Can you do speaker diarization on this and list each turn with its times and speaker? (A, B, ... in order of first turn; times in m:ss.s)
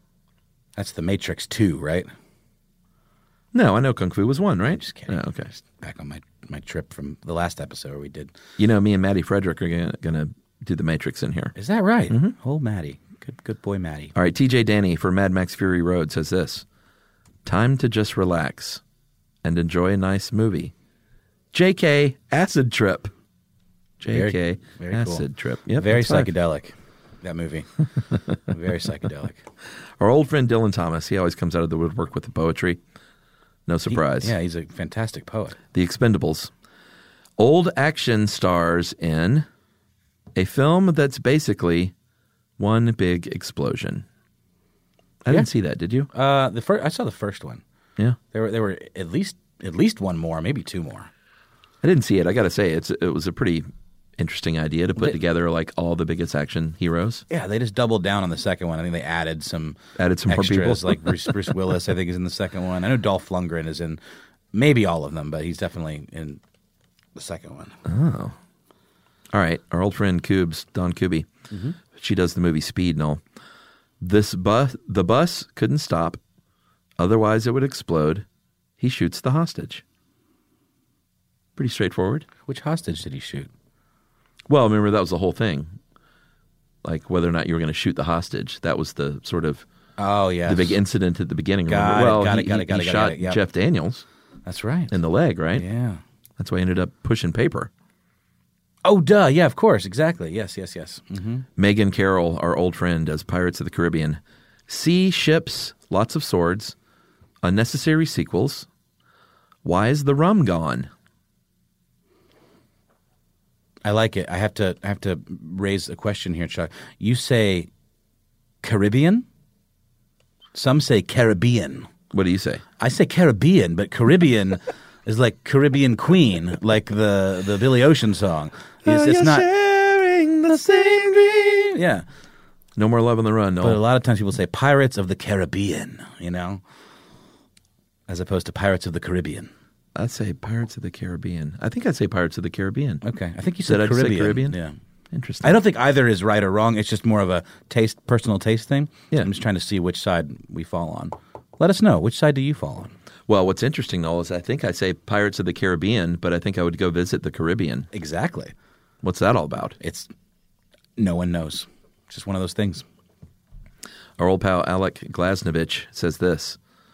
0:00.8-0:02.1 A
0:03.5-0:05.5 B
0:04.7-0:08.3 A
0:08.6-0:11.5 B
0:11.5-0:14.1 A
0:12.1-0:12.3 B
0:14.2-0:16.6 B
0:17.4-0:18.8 B
0:19.4-0:20.7 B
0:21.5-0:23.1 B
0:24.0-0:26.3 B
0:24.1-0:25.2 A
0:25.8-0:27.7 A
0:28.5-0:29.4 A
0:30.0-0:32.8 B
0:33.7-0:34.3 B
0:33.9-0:35.6 A
0:35.7-0:36.5 B
0:37.4-0:39.5 B
0:40.4-0:41.9 B
0:42.6-0:44.0 B
0:45.2-0:46.1 B
0:46.1-0:47.6 A
0:48.3-0:51.1 A
0:51.8-0:53.7 B
0:54.2-0:57.2 B
0:57.3-1:04.0 A
1:00.0-1:01.4 B
1:04.5-1:06.4 A
1:07.1-1:07.8 A
1:07.8-1:08.4 B
1:09.3-1:11.3 B
1:11.5-1:11.8 A
1:11.9-1:13.2 B
1:14.0-1:16.2 B
1:17.0-1:18.2 B
1:18.8-1:19.8 B
1:21.6-1:22.2 B
1:22.5-1:23.5 A
1:24.5-1:25.7 B
1:26.8-1:29.6 B
1:30.0-1:30.8 A
1:30.4-1:34.0 B
1:31.7-1:33.4 A
1:34.4-1:34.9 A
1:34.9-1:35.6 B
1:35.5-1:36.0 A
1:36.4-1:37.7 B
1:38.8-1:41.5 A
1:41.6-1:46.7 B
1:47.4-1:48.7 B
1:49.6-1:50.9 B
1:53.8-1:57.7 A
1:58.6-1:59.2 A
2:00.5-2:01.9 A
2:02.1-2:02.6 B
2:02.8-2:09.5 A
2:08.8-2:11.8 B
2:10.6-2:10.8 A
2:11.7-2:12.0 A
2:12.8-2:13.8 B
2:13.6-2:16.6 A
2:18.1-2:19.5 A
2:19.9-2:23.0 B
2:23.0-2:24.8 A
2:23.6-2:24.6 B
2:25.1-2:25.6 B
2:25.4-2:32.9 A
2:33.3-2:37.9 B
2:37.9-2:38.5 A
2:39.0-2:39.8 B
2:39.8-2:40.1 A
2:41.0-2:42.8 A
2:44.2-2:46.6 B